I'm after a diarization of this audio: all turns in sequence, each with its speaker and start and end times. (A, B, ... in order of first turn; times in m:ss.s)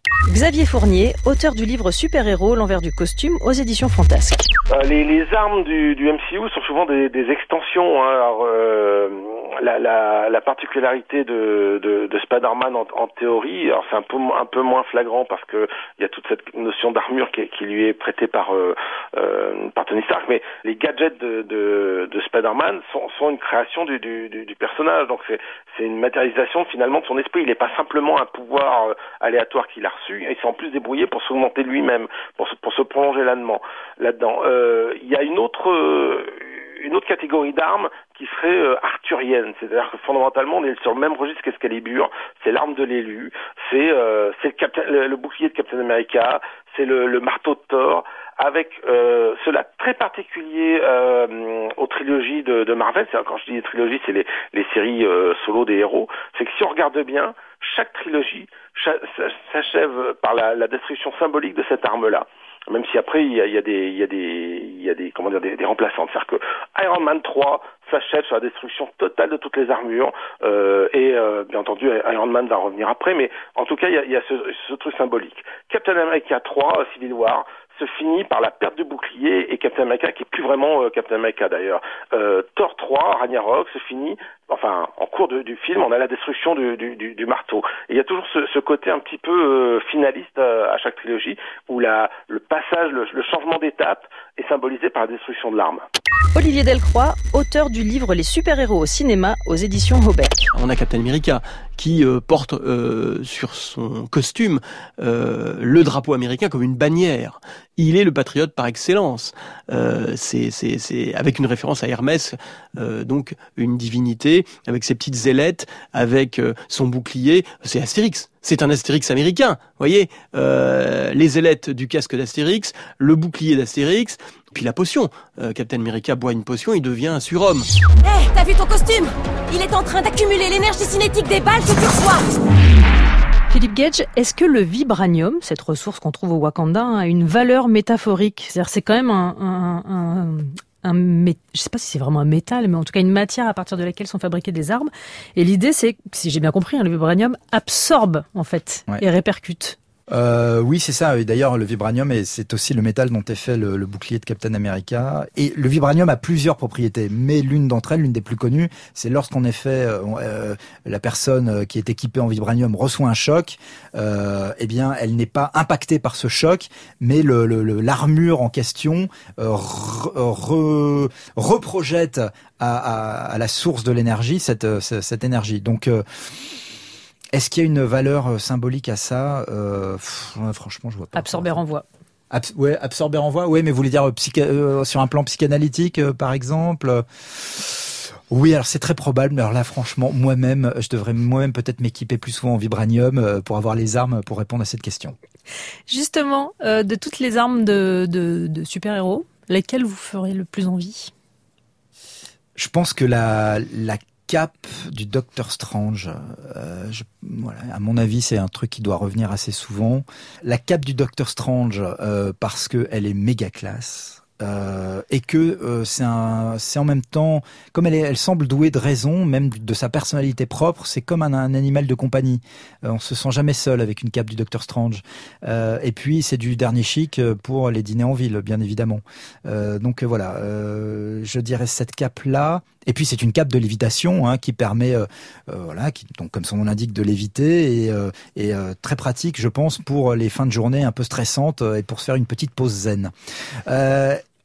0:00.3-0:04.5 A
0:04.7-1:35.8 B
1:36.3-1:40.5 A
1:40.5-2:07.7 C
2:08.1-2:12.2 D
2:13.5-2:29.8 A
2:30.1-2:56.0 E
2:57.3-3:01.6 E
3:01.1-3:01.8 A
3:02.3-3:15.2 E
3:15.9-3:21.1 A
3:22.6-4:03.1 E
4:03.7-4:04.2 E